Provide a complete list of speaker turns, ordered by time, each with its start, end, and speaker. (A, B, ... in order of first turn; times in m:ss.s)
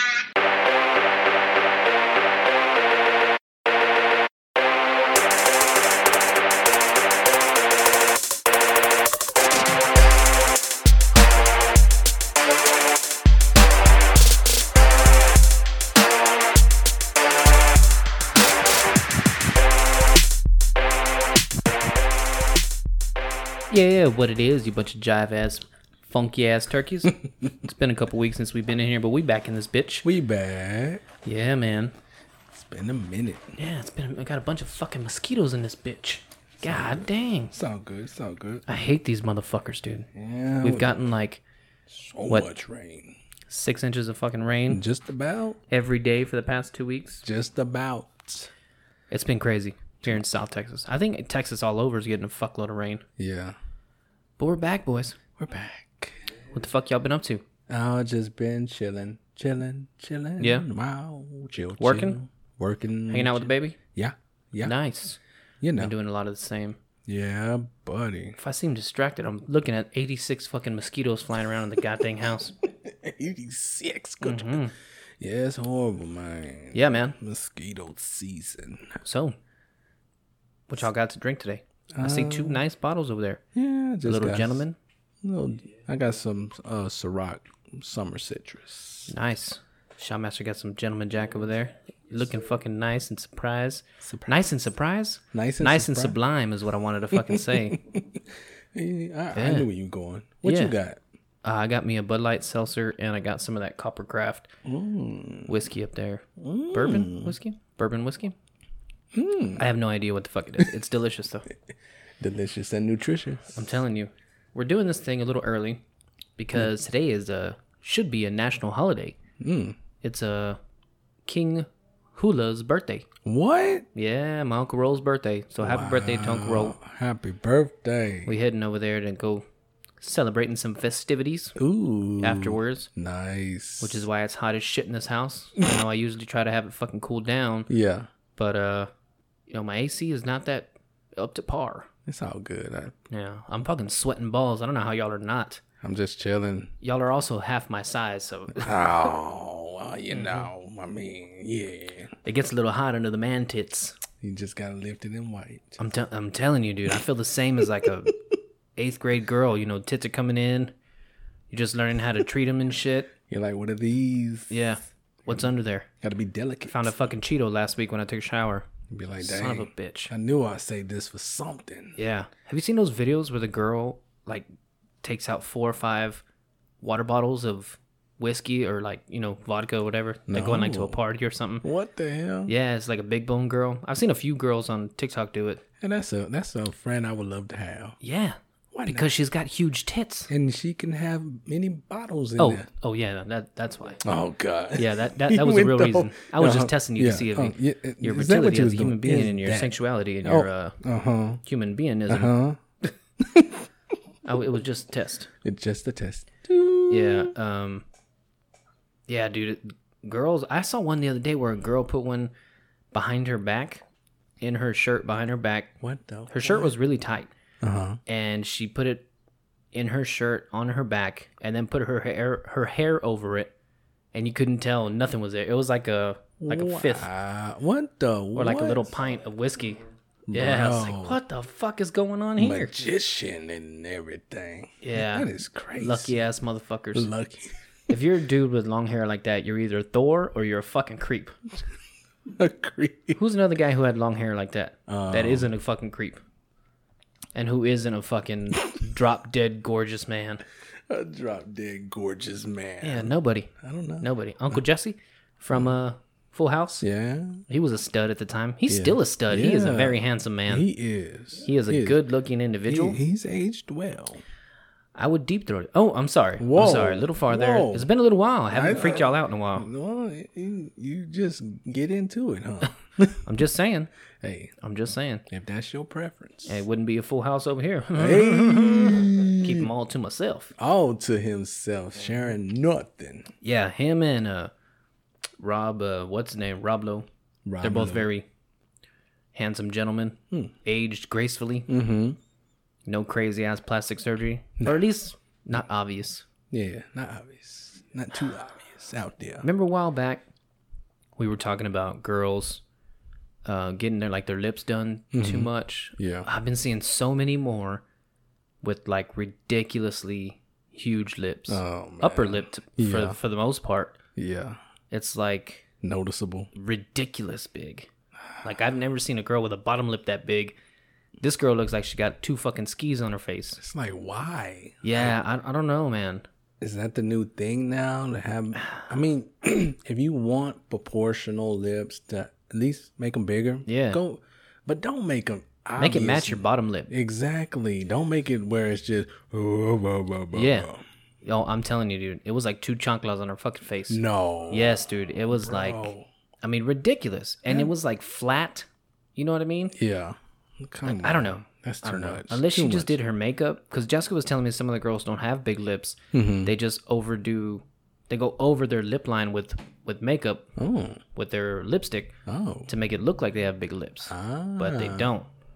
0:23.7-0:30.1 A
0:27.2-0:27.5 B
0:30.0-0:31.0 B
0:31.2-0:31.9 A
0:32.5-0:33.6 B
0:33.6-0:37.5 A
0:36.6-0:38.6 B
0:38.7-0:40.1 A
0:40.1-0:41.0 B
0:40.6-0:41.4 A
0:41.9-0:43.2 B
0:43.5-0:44.8 A
0:44.7-0:45.6 B
0:45.7-0:47.2 A
0:47.2-0:48.5 B
0:49.1-0:53.0 A
0:53.2-0:53.6 B
0:54.4-0:55.2 A
0:55.4-0:56.3 B
0:56.5-0:57.4 A
0:57.7-1:04.7 B
1:00.4-1:00.6 A
1:01.8-1:02.2 A
1:03.1-1:03.8 A
1:04.6-1:05.2 A
1:05.6-1:05.9 B
1:05.8-1:06.8 A
1:07.0-1:08.4 B
1:08.4-1:12.6 A
1:12.6-1:14.6 B
1:14.2-1:14.7 A
1:15.2-1:19.0 B
1:16.7-1:17.2 A
1:19.0-1:19.4 A
1:20.7-1:23.4 A
1:21.9-1:22.6 B
1:23.5-1:24.6 B
1:24.0-1:24.8 A
1:25.2-1:29.1 B
1:29.1-1:37.8 A
1:34.0-1:34.4 B
1:35.3-1:36.2 B
1:37.1-1:38.2 B
1:38.7-1:41.0 B
1:39.3-1:39.7 A
1:40.4-1:40.7 A
1:41.4-1:44.5 A
1:44.6-1:45.5 B
1:45.5-1:48.3 A
1:46.4-1:47.3 B
1:49.1-1:49.6 B
1:49.6-1:51.4 A
1:52.2-1:53.7 B
1:53.5-1:55.8 A
1:56.4-1:59.2 A
1:59.4-1:59.8 B
2:00.0-2:00.6 A
2:01.2-2:03.1 A
2:03.2-2:03.8 B
2:03.9-2:06.8 A
2:05.6-2:08.3 B
2:08.2-2:09.4 A
2:10.0-2:11.6 A
2:11.6-2:14.0 B
2:12.2-2:12.9 A
2:13.8-2:17.7 A
2:17.7-2:18.1 B
2:18.3-2:18.9 A
2:19.5-2:21.9 A
2:22.0-2:22.9 B
2:23.1-2:25.6 A
2:25.8-2:26.7 B
2:26.8-2:28.8 A
2:28.5-2:32.1 B
2:30.1-2:30.5 A
2:32.2-2:34.0 A
2:34.2-2:35.8 B
2:35.8-2:38.1 A
2:38.8-2:40.7 A
2:41.5-2:43.1 A
2:43.3-2:44.6 B
2:44.5-2:45.9 A
2:46.0-2:46.9 B
2:46.7-2:48.7 A
2:48.9-2:52.0 B
2:49.2-2:50.1 A
2:52.0-2:54.4 A
2:55.0-2:56.2 A
2:56.8-3:01.6 A
3:00.3-3:01.0 B
3:01.6-3:02.5 B
3:02.5-3:05.6 A
3:05.8-3:08.0 B
3:08.0-3:10.3 A
3:08.7-3:09.1 B
3:10.3-3:12.7 B
3:12.4-3:14.0 A
3:14.0-3:21.4 B
3:14.8-3:20.8 A
3:21.4-3:22.3 A
3:22.1-3:22.6 B
3:23.2-3:23.6 B
3:24.2-3:25.3 A
3:25.4-3:27.3 B
3:26.9-3:27.8 A
3:29.1-3:32.3 A
3:32.9-3:33.8 A
3:34.4-3:35.7 A
3:35.8-3:36.7 B
3:36.3-3:37.3 A
3:37.6-3:38.0 B
3:38.0-3:39.0 A
3:39.7-3:43.5 A
3:44.1-3:47.1 A
3:46.4-3:49.0 B
3:48.3-3:52.7 A
3:50.3-3:51.2 B
3:52.4-3:56.1 B
3:54.8-3:57.1 A
3:56.9-3:57.6 B
3:57.9-4:01.4 A
4:02.3-4:03.2 B
4:03.1-4:06.2 A
4:04.9-4:05.5 B
4:07.3-4:10.4 A
4:10.9-4:14.6 B
4:12.8-4:16.8 A
4:16.8-4:17.4 B
4:17.5-4:20.7 A
4:18.7-4:22.0 B
4:21.4-4:23.0 A
4:22.7-4:24.2 B
4:25.0-4:29.7 A
4:26.4-4:27.9 B
4:28.5-4:33.2 B
4:33.2-4:33.9 A
4:34.2-4:34.5 B
4:34.6-4:35.2 A
4:35.3-4:36.6 B
4:36.4-4:40.5 A
4:37.9-4:39.7 B
4:40.6-4:43.3 B
4:43.4-4:44.5 A
4:45.4-4:47.1 A
4:47.4-4:48.1 B
4:47.6-4:48.3 A
4:49.3-4:51.7 A
4:51.7-4:52.2 B
4:52.8-4:56.2 A
4:56.5-4:59.5 B
4:59.4-5:00.2 A
5:01.2-5:02.6 A
5:03.4-5:07.8 A
5:05.1-5:06.3 B
5:08.6-5:14.0 A
5:11.5-5:13.2 B
5:14.2-5:14.6 B
5:14.9-5:15.6 A
5:15.8-5:16.5 B
5:16.5-5:17.9 A
5:18.4-5:20.6 A
5:21.2-5:23.6 A
5:23.6-5:25.2 B
5:24.8-5:26.2 A
5:26.6-5:40.8 B
5:33.7-5:34.0 A
5:35.8-5:36.9 A
5:40.3-5:40.7 A
5:41.2-5:45.9 A
5:43.9-5:46.0 B
5:46.4-5:49.7 A
5:49.7-5:53.0 B
5:50.8-6:00.5 A
5:56.1-5:56.5 B
6:00.6-6:01.0 B
6:01.1-6:02.2 A
6:02.2-6:02.7 B
6:02.7-6:05.3 A
6:04.0-6:05.1 B